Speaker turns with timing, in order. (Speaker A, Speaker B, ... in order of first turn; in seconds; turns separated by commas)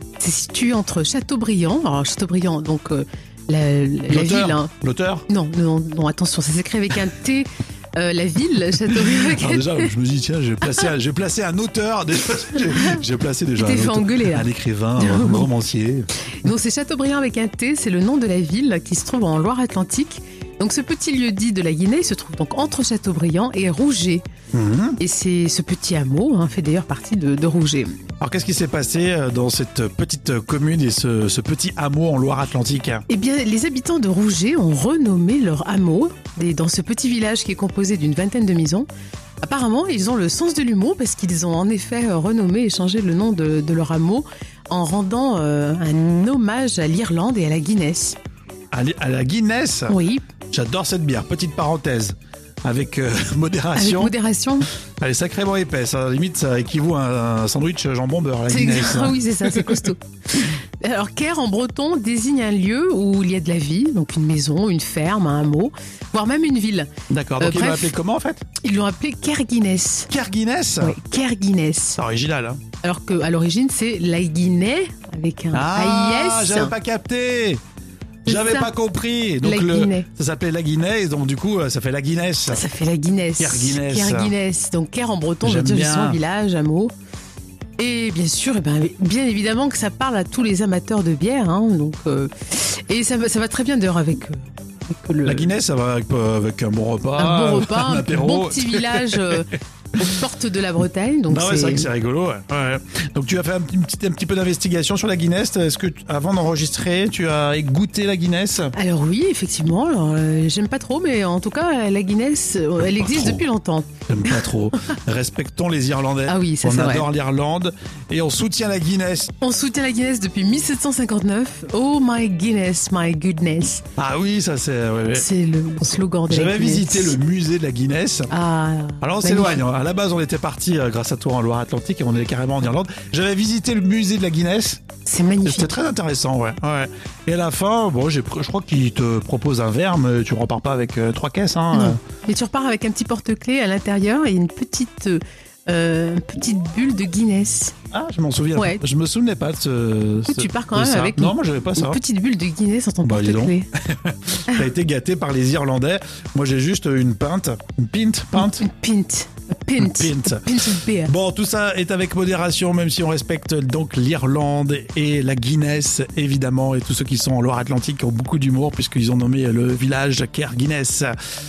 Speaker A: 0.2-4.7, Speaker B: 4.1-5.2, Speaker A: 5.3-9.9, Speaker B: 9.0-16.1, Speaker A: 13.6-15.5, Speaker A: 16.4-24.2, Speaker B: 24.5-25.0, Speaker A: 25.0-27.9, Speaker B: 28.2-33.0, Speaker A: 33.1-38.9, Speaker A: 39.4-48.2, Speaker B: 48.7-49.9, Speaker A: 49.9-50.2, Speaker B: 50.5-54.1, Speaker A: 53.8-54.7, Speaker B: 55.0-59.7, Speaker A: 58.5-66.9, Speaker B: 67.1-68.4, Speaker A: 67.4-67.9, Speaker A: 68.6-70.1, Speaker B: 70.1-71.0, Speaker A: 70.8-72.0, Speaker B: 72.0-72.6, Speaker A: 72.8-76.7, Speaker B: 75.5-77.6, Speaker A: 78.2-78.7, Speaker B: 78.2-82.6, Speaker A: 79.4-80.1, Speaker A: 82.5-86.9, Speaker B: 83.4-84.3, Speaker B: 85.4-86.2, Speaker A: 87.8-95.5, Speaker B: 95.2-99.4, Speaker A: 97.1-101.9, Speaker B: 101.3-108.7, Speaker A: 108.8-114.5, Speaker B: 112.8-113.4, Speaker B: 114.1-119.3, Speaker A: 116.3-117.1, Speaker A: 119.4-123.8, Speaker B: 124.0-125.3, Speaker A: 125.1-127.2, Speaker B: 126.3-128.3, Speaker A: 128.3-129.6, Speaker B: 129.0-134.8, Speaker A: 135.1-135.8, Speaker B: 135.4-142.0, Speaker A: 141.7-147.7, Speaker B: 147.9-152.0, Speaker A: 148.6-148.8, Speaker A: 150.3-153.7, Speaker B: 153.0-158.7, Speaker A: 158.4-161.1, Speaker B: 159.8-160.4, Speaker B: 161.0-171.1